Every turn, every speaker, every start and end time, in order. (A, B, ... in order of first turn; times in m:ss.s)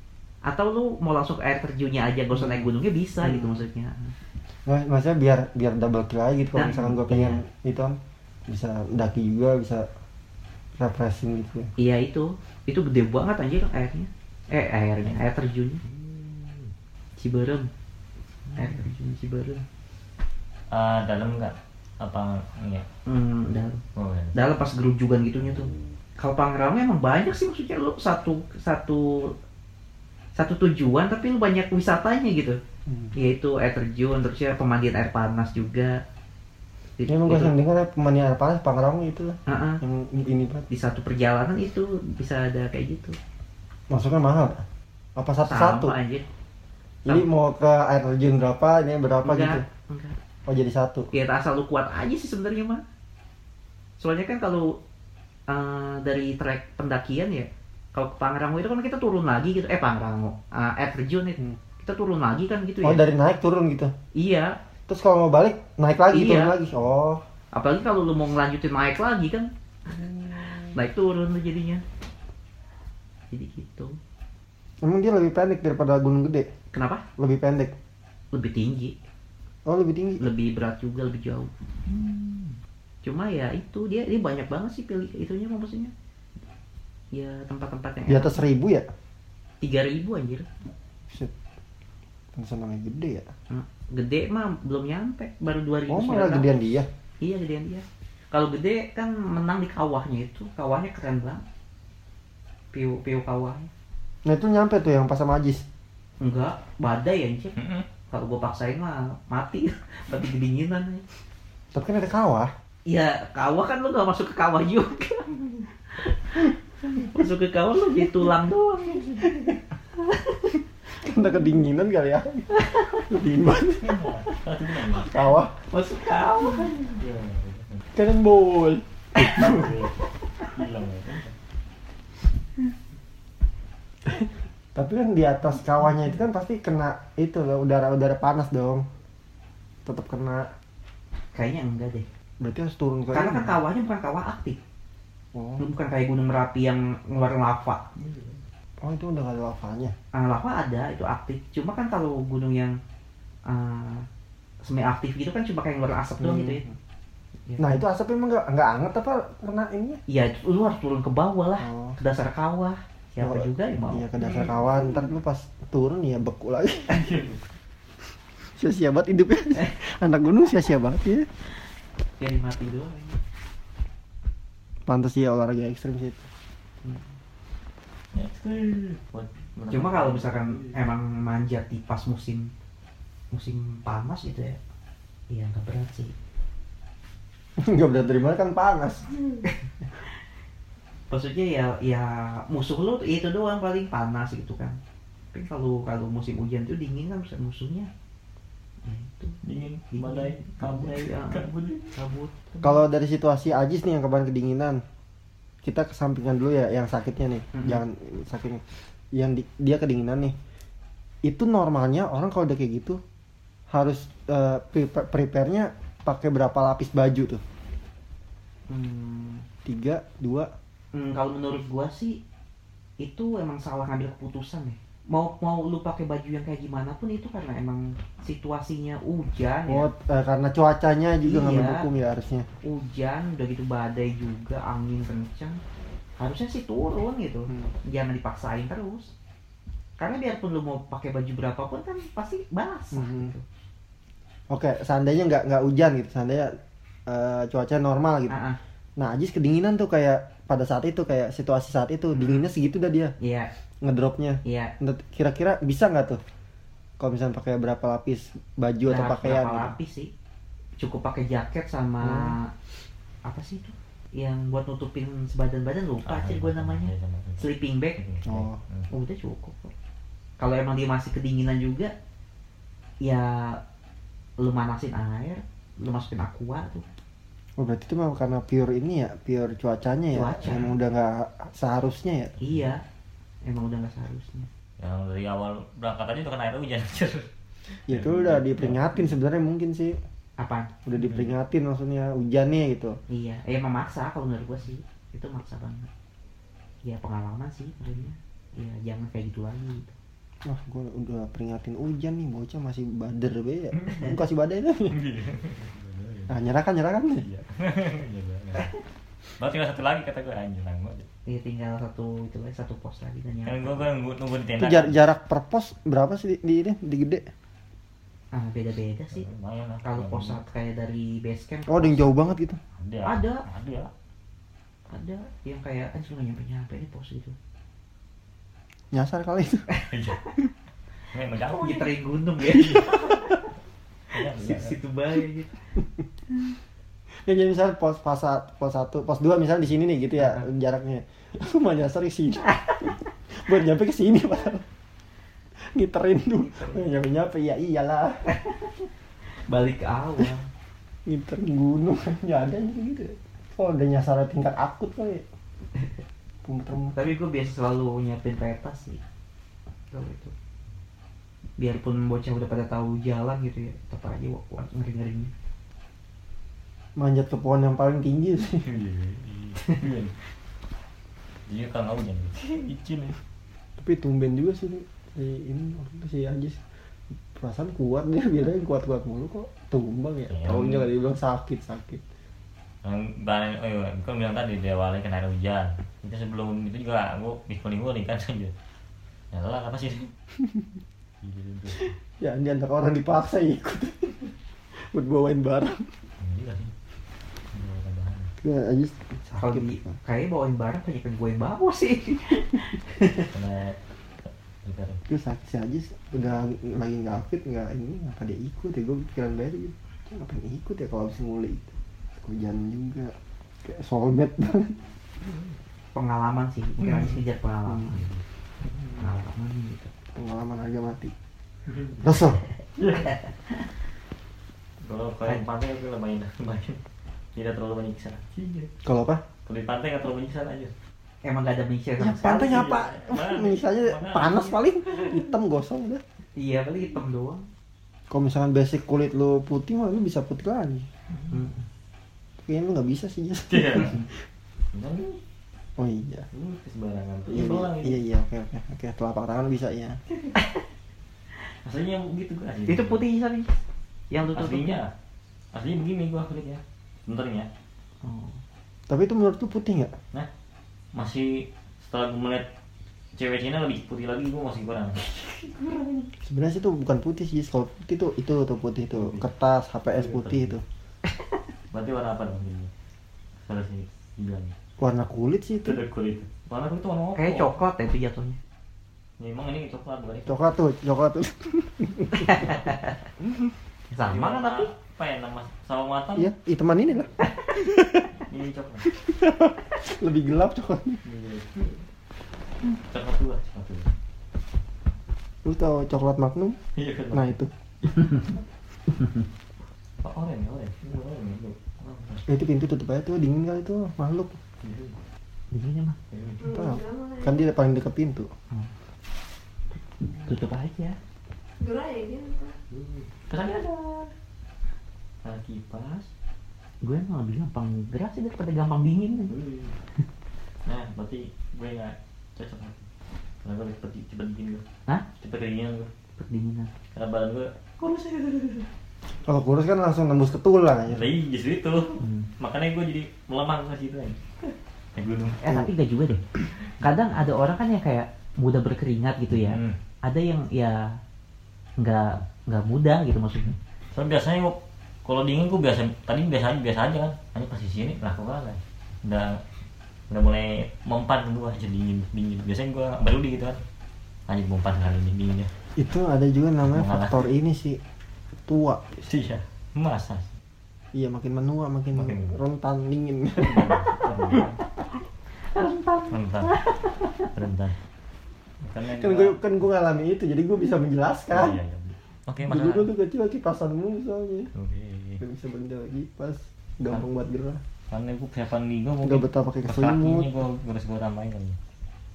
0:00.4-0:04.1 A
0:02.3-0:02.7 B
0:03.2-0:03.6 B
0:04.6-0:08.0 B
0:06.6-0:07.4 A
0:08.5-0:09.9 B
0:10.8-0:11.7 B
0:11.8-0:15.8 A
0:15.9-0:16.7 C
0:17.2-0:17.7 A
0:18.5-0:19.6 A
0:20.7-0:22.9 C
0:23.0-0:23.8 A
0:24.0-0:24.4 C
0:24.4-0:29.4 A
0:30.4-0:32.6 A
0:32.9-0:33.1 B
0:33.1-0:35.9 A
0:37.0-0:37.5 A
0:37.1-0:40.6 B
0:39.5-0:39.8 A
0:40.7-0:43.2 A
0:43.9-0:44.6 B
0:45.2-0:45.9 B
0:45.5-0:46.2 A
0:47.0-0:49.6 B
0:49.2-0:50.2 A
0:50.5-0:51.1 B
0:51.1-0:52.8 A
0:54.0-0:54.8 A
0:55.5-1:03.0 A
1:02.8-1:03.9 B
1:04.1-1:04.6 A
1:04.9-1:07.2 B
1:06.1-1:06.5 A
1:07.5-1:09.5 A
1:10.7-1:11.8 A
1:13.3-1:14.0 A
1:14.8-1:16.5 B
1:16.7-1:17.0 A
1:17.2-1:17.7 B
1:18.3-1:19.0 A
1:19.6-1:20.2 B
1:20.2-1:22.5 A
1:23.0-1:25.9 A
1:27.1-1:28.3 A
1:28.1-1:28.9 B
1:29.6-1:30.5 A
1:32.3-1:33.3 B
1:33.5-1:36.6 A
1:35.9-1:36.9 B
1:37.2-1:41.4 A
1:42.7-1:43.7 A
1:44.2-1:45.6 B
1:46.2-1:51.0 A
1:47.6-1:47.9 C
1:51.7-1:52.5 B
1:52.9-1:55.3 A
1:55.9-2:00.5 A
2:01.0-2:04.0 B
2:02.6-2:02.9 A
2:03.8-2:05.1 C
2:04.9-2:05.6 B
2:05.7-2:06.8 A
2:06.8-2:07.8 C
2:07.9-2:09.6 B
2:09.2-2:11.4 C
2:14.8-2:18.8 B
2:19.8-2:20.5 B
2:21.3-2:22.1 A
2:22.4-2:23.6 B
2:23.1-2:24.6 A
2:25.3-2:25.7 B
2:25.6-2:27.8 A
2:28.0-2:28.4 C
2:28.8-2:29.9 B
2:30.1-2:32.8 A
2:33.5-2:34.0 A
2:34.6-2:36.6 A
2:36.2-2:36.8 B
2:37.5-2:37.8 A
2:37.6-2:40.0 B
2:40.1-2:44.1 A
2:41.6-2:42.0 B
2:43.2-2:47.0 B
2:46.9-2:47.4 C
2:48.5-2:51.3 B
2:52.2-2:53.2 A
2:54.9-2:56.2 B
2:58.1-3:00.8 C
2:59.7-3:02.5 A
3:03.3-3:04.6 A
3:05.3-3:06.1 A
3:07.6-3:09.1 B
3:11.1-3:14.8 A
3:15.3-3:17.9 A
3:18.8-3:19.4 A
3:19.4-3:21.9 C
3:19.9-3:22.8 A
3:22.6-3:24.8 B
3:25.6-3:30.4 B
3:31.2-3:33.0 B
3:33.7-3:37.4 B
3:38.7-3:39.5 A
3:39.6-3:40.5 B
3:40.9-3:42.2 A
3:43.0-3:49.9 A
3:49.7-3:52.5 B
3:51.2-3:51.9 A
3:52.6-3:55.6 A
3:56.2-3:59.1 A
4:00.0-4:03.4 A
4:02.9-4:03.4 B
4:04.5-4:06.5 B
4:07.1-4:08.4 B
4:08.3-4:08.6 A
4:09.0-4:13.1 B
4:13.2-4:13.5 A
4:13.8-4:16.2 B
4:14.4-4:14.7 A
4:17.0-4:19.8 B
4:18.9-4:20.1 A
4:20.8-4:22.5 A
4:22.0-4:22.4 B
4:23.2-4:28.0 A
4:26.0-4:28.9 C
4:28.2-4:28.6 B
4:28.9-4:29.7 A
4:30.4-4:31.9 A
4:33.0-4:33.6 A
4:34.4-4:36.9 A
4:37.6-4:42.4 B
4:40.1-4:40.7 A
4:42.4-4:42.7 C
4:42.4-4:42.8 A
4:43.4-4:44.5 A
4:44.8-4:49.2 C
4:47.9-4:50.0 B
4:50.4-4:50.7 A
4:50.8-4:53.0 B
4:51.0-4:51.4 C
4:53.1-4:55.9 A
4:56.8-4:59.9 A
5:00.4-5:05.0 B
5:04.9-5:06.5 C
5:06.3-5:07.2 B
5:07.2-5:08.8 C
5:09.4-5:11.1 C
5:11.2-5:13.9 A
5:13.5-5:15.0 C
5:14.6-5:17.3 B
5:18.3-5:19.2 A
5:19.1-5:20.4 C
5:19.8-5:22.1 A
5:21.7-5:22.6 B
5:22.8-5:23.9 C
5:23.0-5:23.4 A
5:24.9-5:27.4 A
5:28.9-5:29.7 B
5:29.9-5:30.4 C
5:31.1-5:33.2 C
5:31.5-5:33.3 A
5:34.1-5:34.8 C
5:34.1-5:35.7 A
5:37.2-5:44.6 B
5:45.6-5:48.2 B
5:46.4-5:46.9 A
5:48.4-5:48.9 A
5:49.5-5:50.5 A
5:51.1-5:55.2 B
5:56.4-5:57.0 B
5:56.9-5:59.0 A
5:59.9-6:00.3 A
6:01.6-6:05.3 A
6:07.0-6:08.6 B
6:08.6-6:10.1 C
6:11.5-6:13.2 C
6:13.8-6:16.6 B
6:17.3-6:22.0 B
6:20.3-6:20.9 C
6:22.8-6:28.5 C
6:29.3-6:30.1 C
6:30.4-6:30.7 B
6:31.2-6:32.0 C
6:32.2-6:35.9 B
6:36.2-6:36.7 C
6:37.5-6:38.3 C
6:38.4-6:39.9 B
6:39.4-6:43.3 A
6:43.3-6:45.0 C
6:45.1-6:53.1 B
6:53.6-6:54.8 B
6:55.2-6:55.5 C
6:55.9-6:58.0 A
6:57.8-6:59.1 C
6:59.0-6:59.9 A
7:00.1-7:01.1 B
7:01.7-7:03.2 C
7:02.0-7:02.4 B
7:04.8-7:06.8 C
7:07.4-7:08.7 C
7:08.8-7:09.2 B
7:09.5-7:10.7 C
7:11.2-7:12.6 A
7:12.0-7:16.0 B
7:12.4-7:14.6 C
7:16.4-7:17.5 A
7:18.1-7:20.9 B
7:21.1-7:21.4 C
7:21.3-7:21.6 A
7:22.4-7:24.2 B
7:23.5-7:24.0 C
7:24.7-7:25.2 C
7:25.8-7:26.3 B
7:26.3-7:28.0 C
7:27.3-7:30.0 B
7:31.5-7:33.0 C
7:32.7-7:33.6 A
7:34.1-7:34.7 A
7:34.3-7:34.9 C
7:35.5-7:37.5 C
7:38.0-7:38.4 A
7:38.9-7:40.0 B
7:40.9-7:42.5 C
7:43.1-7:46.1 C
7:46.2-7:50.6 B
7:48.9-7:49.3 C
7:49.9-7:50.6 C
7:51.7-7:52.7 C
7:53.4-7:54.5 C
7:54.8-7:55.8 B
7:55.6-7:57.6 C
7:57.2-7:58.4 A
7:59.2-8:00.4 C
8:00.2-8:02.5 B
8:02.2-8:03.0 A
8:03.9-8:04.7 A
8:04.1-8:06.3 C
8:06.2-8:08.1 B
8:08.2-8:08.9 C
8:08.9-8:11.0 B
8:11.0-8:11.9 C
8:12.8-8:13.9 C
8:15.4-8:16.6 B
8:16.8-8:17.4 C
8:17.1-8:17.5 B
8:18.0-8:18.3 C
8:20.0-8:22.2 C
8:22.3-8:24.4 B
8:24.6-8:25.0 C
8:25.5-8:26.0 A
8:26.1-8:26.6 C
8:26.4-8:27.4 D
8:26.5-8:28.3 B
8:29.7-8:31.0 A
8:31.6-8:32.6 D
8:32.7-8:34.1 C
8:35.2-8:36.1 C
8:36.8-8:39.4 A
8:39.3-8:39.8 C
8:40.6-8:42.9 C
8:43.4-8:44.6 C
8:45.2-8:45.9 C
8:46.2-8:46.7 A
8:46.9-8:48.7 C
8:49.2-8:51.0 B
8:50.9-8:55.4 C
8:52.0-8:52.3 A
8:55.4-9:01.0 A
8:59.3-8:59.8 C
9:01.8-9:03.6 A
9:03.9-9:09.4 C
9:10.1-9:13.6 C
9:14.3-9:15.5 C
9:15.8-9:17.8 B
9:16.6-9:17.3 C
9:18.5-9:19.0 B
9:19.0-9:20.3 C
9:20.9-9:23.8 B
9:21.9-9:22.4 C
9:23.4-9:24.6 C
9:25.5-9:27.3 A
9:26.1-9:26.5 C
9:27.3-9:27.8 C
9:28.6-9:29.4 C
9:29.0-9:31.6 B
9:31.3-9:32.9 C
9:32.5-9:34.5 B
9:34.5-9:35.2 C
9:35.2-9:37.6 B
9:37.9-9:41.6 C
9:39.0-9:40.3 B